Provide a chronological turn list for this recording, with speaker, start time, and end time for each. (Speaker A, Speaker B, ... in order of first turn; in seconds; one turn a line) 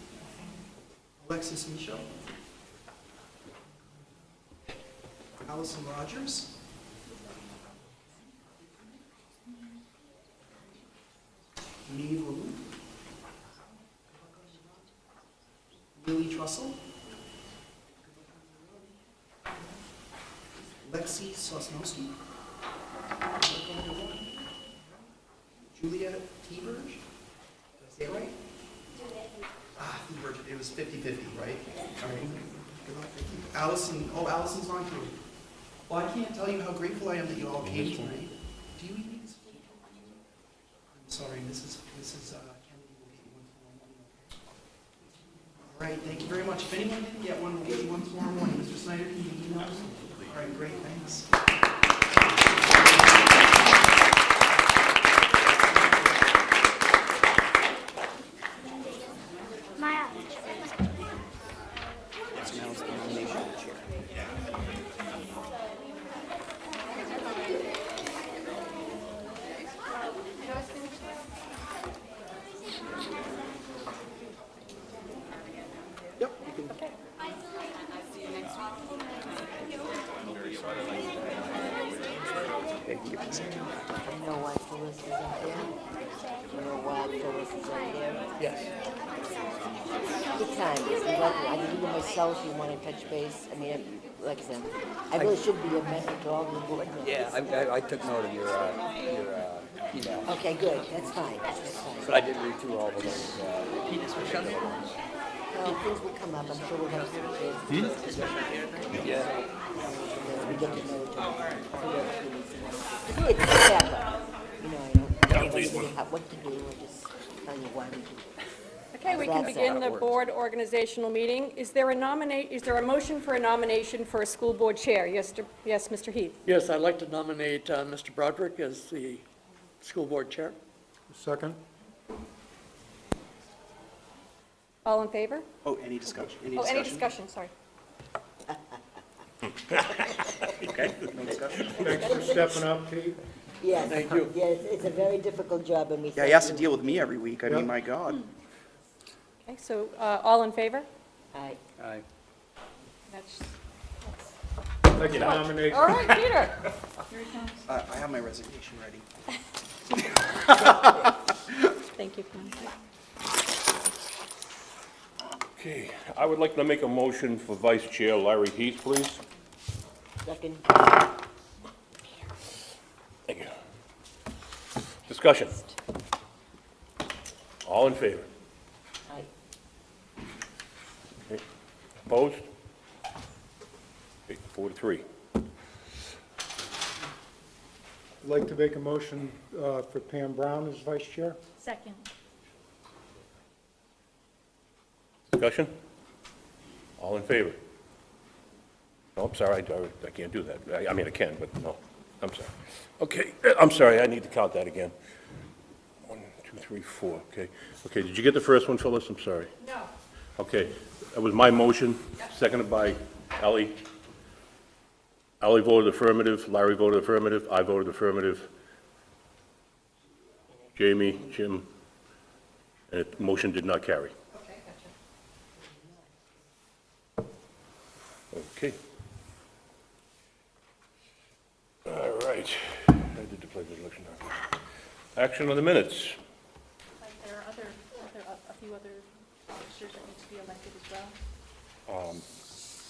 Speaker A: 1.2-2.1
Speaker A: 5.4-6.5
Speaker A: 11.9-12.6
Speaker A: 15.9-16.8
Speaker A: 20.8-22.2
Speaker A: 23.3-24.5
Speaker A: 25.7-27.0
Speaker A: 27.8-28.4
Speaker A: 29.8-35.2
Speaker A: 35.9-39.8
Speaker A: 40.9-44.3
Speaker A: 45.7-51.3
Speaker A: 52.2-53.8
Speaker A: 55.3-56.1
Speaker A: 62.4-63.9
Speaker B: 82.9-83.2
Speaker A: 83.0-83.6
Speaker C: 84.0-85.8
Speaker C: 86.5-88.3
Speaker C: 90.3-97.7
Speaker B: 97.0-100.3
Speaker C: 100.3-102.2
Speaker B: 102.0-105.0
Speaker C: 105.5-108.4
Speaker C: 108.9-118.3
Speaker B: 109.0-109.3
Speaker D: 115.4-115.9
Speaker E: 118.9-126.4
Speaker C: 119.0-120.1
Speaker F: 126.5-129.2
Speaker F: 129.8-130.6
Speaker G: 131.1-131.6
Speaker E: 134.8-135.4
Speaker A: 135.6-137.1
Speaker E: 136.6-137.5
Speaker A: 141.0-142.0
Speaker C: 141.8-142.6
Speaker G: 141.8-143.2
Speaker C: 143.6-147.1
Speaker F: 143.8-144.3
Speaker A: 146.2-148.2
Speaker E: 149.5-150.9
Speaker C: 151.3-151.6
Speaker B: 151.8-152.0
Speaker E: 153.1-154.3
Speaker G: 154.9-156.0
Speaker E: 155.1-156.6
Speaker E: 157.1-157.5
Speaker A: 157.7-159.1
Speaker E: 161.9-162.7
Speaker D: 165.6-169.2
Speaker C: 170.2-170.8
Speaker D: 173.3-173.5
Speaker D: 175.1-175.6
Speaker D: 177.7-178.3
Speaker D: 182.1-182.4
Speaker D: 184.3-185.0
Speaker G: 188.2-191.4
Speaker H: 191.6-192.0
Speaker D: 195.3-195.7
Speaker D: 197.0-197.6
Speaker D: 199.2-204.9
Speaker D: 206.1-209.5
Speaker D: 210.4-213.8
Speaker D: 215.4-218.5
Speaker D: 220.8-221.7
Speaker D: 222.9-224.1
Speaker D: 228.3-228.8
Speaker D: 231.9-234.3
Speaker D: 235.2-236.2
Speaker H: 237.0-241.2
Speaker D: 241.9-242.2